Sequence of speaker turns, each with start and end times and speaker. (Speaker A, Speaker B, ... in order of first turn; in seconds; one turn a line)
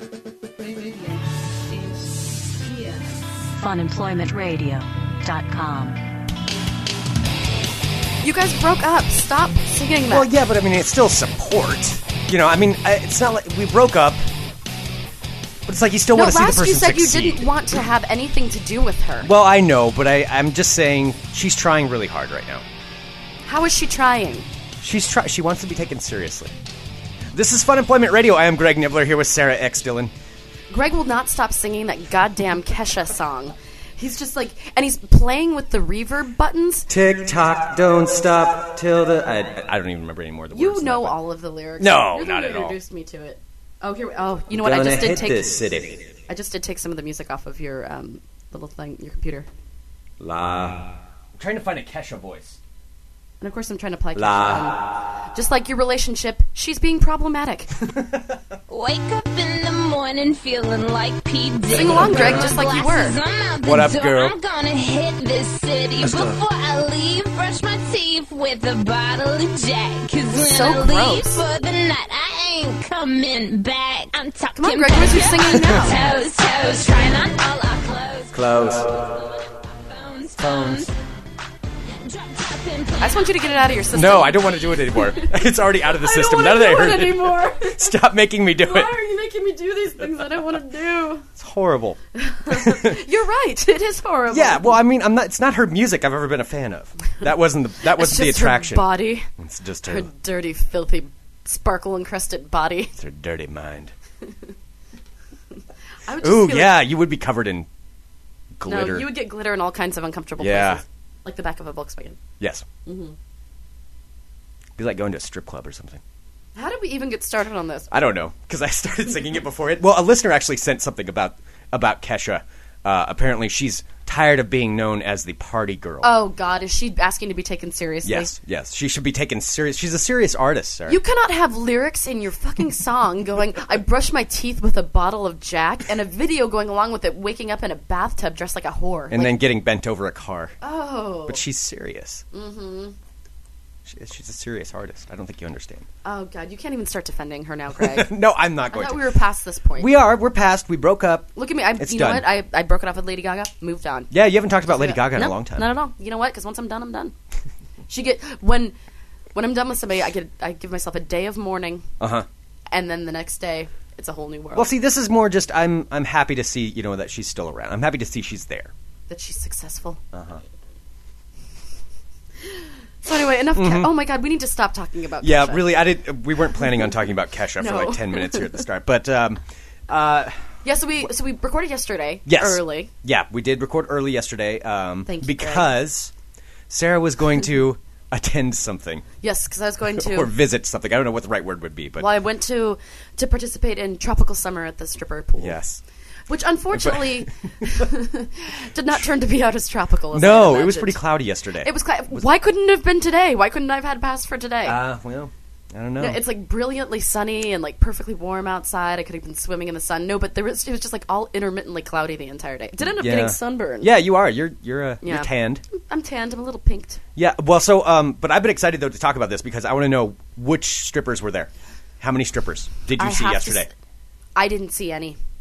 Speaker A: 0.6-3.1
Speaker B: 3.4-6.0
Speaker C: 8.2-10.3
Speaker D: 10.1-14.2
Speaker D: 15.7-17.5
Speaker C: 16.1-19.3
Speaker D: 19.2-22.6
Speaker C: 23.5-24.5
Speaker D: 24.8-26.5
Speaker D: 27.3-30.1
Speaker C: 30.7-36.9
Speaker D: 36.9-41.2
Speaker C: 40.5-45.5
Speaker D: 41.8-42.8
Speaker D: 44.5-46.1
Speaker C: 46.3-49.5
Speaker D: 50.2-52.6
Speaker C: 53.4-57.7
Speaker D: 54.1-54.9
Speaker D: 57.9-58.4
Speaker E: 58.7-78.4
Speaker D: 61.7-62.6
Speaker C: 61.7-63.2
Speaker D: 63.6-64.3
Speaker D: 66.0-66.4
Speaker C: 70.3-71.4
Speaker C: 74.5-76.0
Speaker D: 78.3-78.9
Speaker E: 79.0-80.9
Speaker D: 80.4-80.9
Speaker E: 82.0-83.8
Speaker C: 83.0-87.9
Speaker D: 83.9-88.9
Speaker C: 88.6-91.3
Speaker D: 91.4-93.0
Speaker C: 92.2-94.8
Speaker D: 94.3-100.1
Speaker C: 97.9-99.3
Speaker C: 99.9-103.0
Speaker D: 103.0-103.9
Speaker C: 106.1-106.9
Speaker D: 106.2-107.7
Speaker D: 108.6-109.2
Speaker C: 108.7-112.2
Speaker D: 110.4-110.8
Speaker D: 112.4-112.7
Speaker C: 112.9-113.2
Speaker D: 114.8-116.0
Speaker C: 116.5-117.9
Speaker D: 117.9-126.2
Speaker C: 126.0-128.3
Speaker D: 128.0-131.0
Speaker C: 130.9-139.4
Speaker D: 139.1-140.6
Speaker C: 140.6-141.4
Speaker D: 141.3-142.2
Speaker C: 142.3-142.9
Speaker D: 143.8-145.9
Speaker C: 146.0-148.1
Speaker D: 147.8-149.1
Speaker C: 148.7-149.9
Speaker D: 149.8-152.3
Speaker C: 151.4-154.1
Speaker D: 154.1-155.7
Speaker C: 154.7-157.1
Speaker C: 157.9-158.8
Speaker C: 159.3-161.9
Speaker D: 162.0-162.3
Speaker C: 162.7-164.7
Speaker D: 164.6-168.7
Speaker C: 169.1-170.0
Speaker D: 170.1-170.4
Speaker C: 173.1-175.8
Speaker D: 173.6-173.9
Speaker D: 175.2-180.4
Speaker C: 177.6-178.6
Speaker C: 180.6-182.9
Speaker D: 182.3-186.1
Speaker C: 185.1-185.7
Speaker D: 186.7-189.1
Speaker C: 189.2-190.3
Speaker D: 189.9-192.1
Speaker C: 192.0-195.6
Speaker D: 195.4-195.8
Speaker C: 196.3-201.0
Speaker D: 196.7-197.3
Speaker D: 200.1-202.2
Speaker C: 201.6-204.8
Speaker D: 204.7-206.2
Speaker C: 206.0-213.9
Speaker D: 212.8-215.6
Speaker C: 215.0-217.0
Speaker D: 217.2-223.7
Speaker C: 223.0-223.7
Speaker C: 224.3-225.2